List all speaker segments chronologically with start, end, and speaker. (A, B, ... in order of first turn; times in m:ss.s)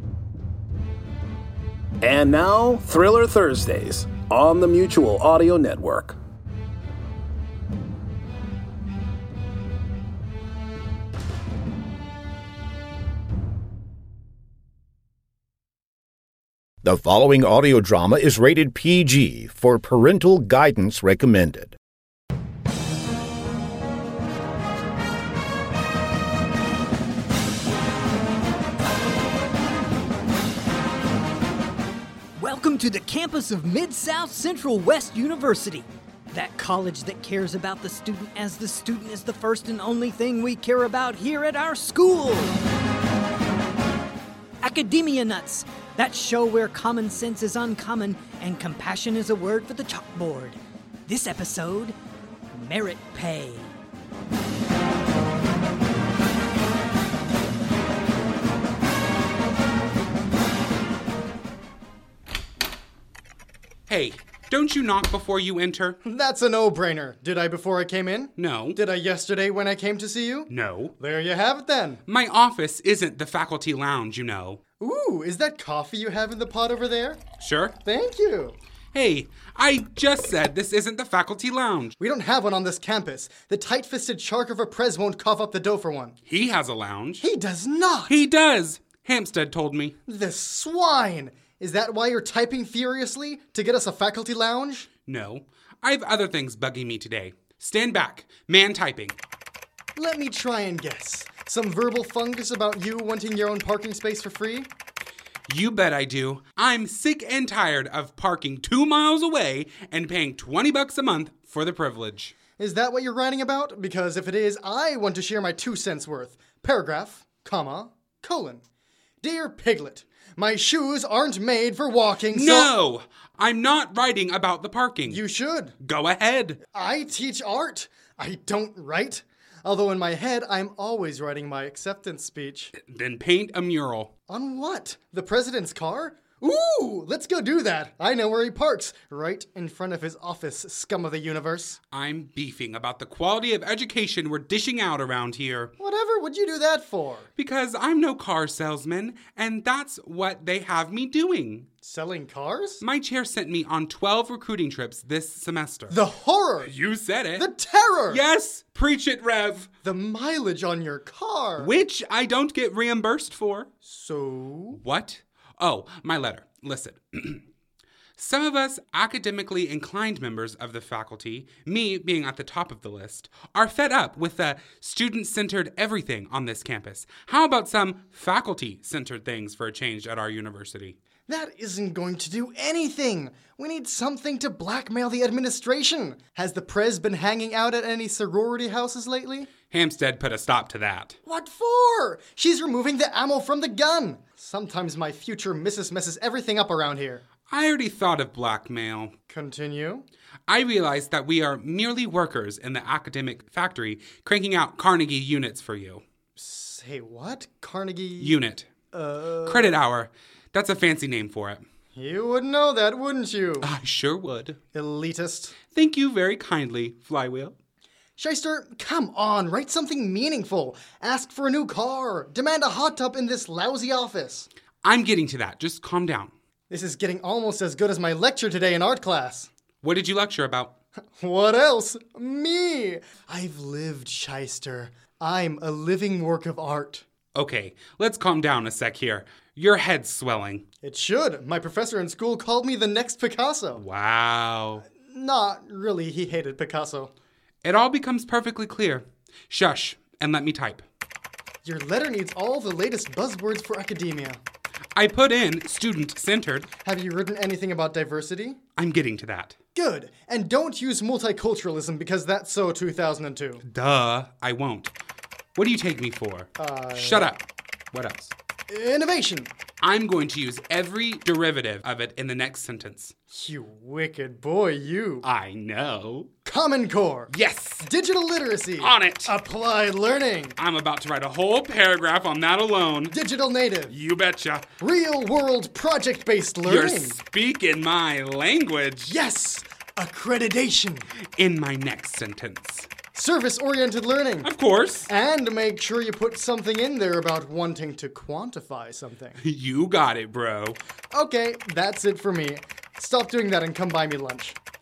0:02.0-0:06.2 A
0:16.8-0:21.8 B
0:32.4-0:42.6 C
0:44.6-0:51.9 C
0:52.5-0:53.7 C
1:03.9-1:06.0 D
1:06.0-1:12.0 E
1:08.4-1:08.8 D
1:10.5-1:10.9 D
1:12.1-1:14.6 D
1:14.8-1:17.2 E
1:17.4-1:17.7 D
1:17.8-1:18.6 E
1:18.9-1:22.0 D
1:22.0-1:26.2 E
1:26.3-1:27.3 D
1:27.2-1:28.2 E
1:28.1-1:30.0 D
1:30.0-1:34.9 E
1:35.0-1:39.1 D
1:39.9-1:44.7 E
1:45.5-1:52.4 D
1:52.6-1:58.6 E
1:59.2-2:02.7 E
2:02.3-2:05.2 D
2:05.1-2:05.8 E
2:05.8-2:06.6 D
2:06.7-2:12.7 E
2:12.8-2:14.1 D
2:14.3-2:21.8 E
2:21.9-2:25.7 D
2:25.8-2:27.3 E
2:27.4-2:31.7 D
2:31.8-2:32.8 E
2:32.8-2:36.0 D
2:35.9-2:36.7 E
2:36.6-2:37.4 D
2:37.3-2:38.2 E
2:38.1-2:39.7 D
2:39.8-2:41.7 E
2:41.6-2:43.7 D
2:43.8-2:44.8 E
2:44.7-2:47.4 D
2:48.2-3:01.0 D
3:01.3-3:09.5 E
3:09.7-3:11.2 D
3:11.2-3:17.2 E
3:17.5-3:19.1 D
3:19.3-3:20.1 E
3:20.5-3:26.0 D
3:26.4-3:28.4 E
3:28.2-3:28.7 D
3:28.9-3:29.8 E
3:29.4-3:31.6 D
3:31.9-3:33.7 E
3:33.6-3:34.6 D
3:34.7-3:35.6 E
3:35.7-3:37.5 D
3:38.2-3:44.5 E
3:44.8-3:46.3 D
3:46.7-3:49.5 E
3:49.8-3:50.7 D
3:51.2-3:57.0 E
3:57.3-4:00.6 D
4:00.8-4:03.8 E
4:03.8-4:04.8 D
4:05.0-4:07.1 E
4:07.6-4:10.8 D
4:11.6-4:14.4 E
4:14.9-4:16.7 D
4:16.8-4:18.6 E
4:18.8-4:19.6 D
4:19.7-4:23.6 E
4:23.6-4:24.9 D
4:25.6-4:28.3 D
4:26.6-4:27.3 E
4:28.7-4:29.5 E
4:29.8-4:33.1 D
4:33.3-4:35.2 E
4:35.2-4:36.3 D
4:36.4-4:40.6 E
4:37.3-4:37.9 D
4:38.8-4:39.3 D
4:40.6-4:43.2 D
4:43.1-4:43.9 E
4:43.9-4:44.6 D
4:44.8-4:47.2 E
4:46.6-4:49.2 D
4:49.1-4:51.1 E
4:51.4-4:52.9 D
4:53.1-4:54.5 E
4:54.4-4:55.1 D
4:55.1-4:59.4 E
4:59.4-5:00.8 D
5:01.1-5:04.6 E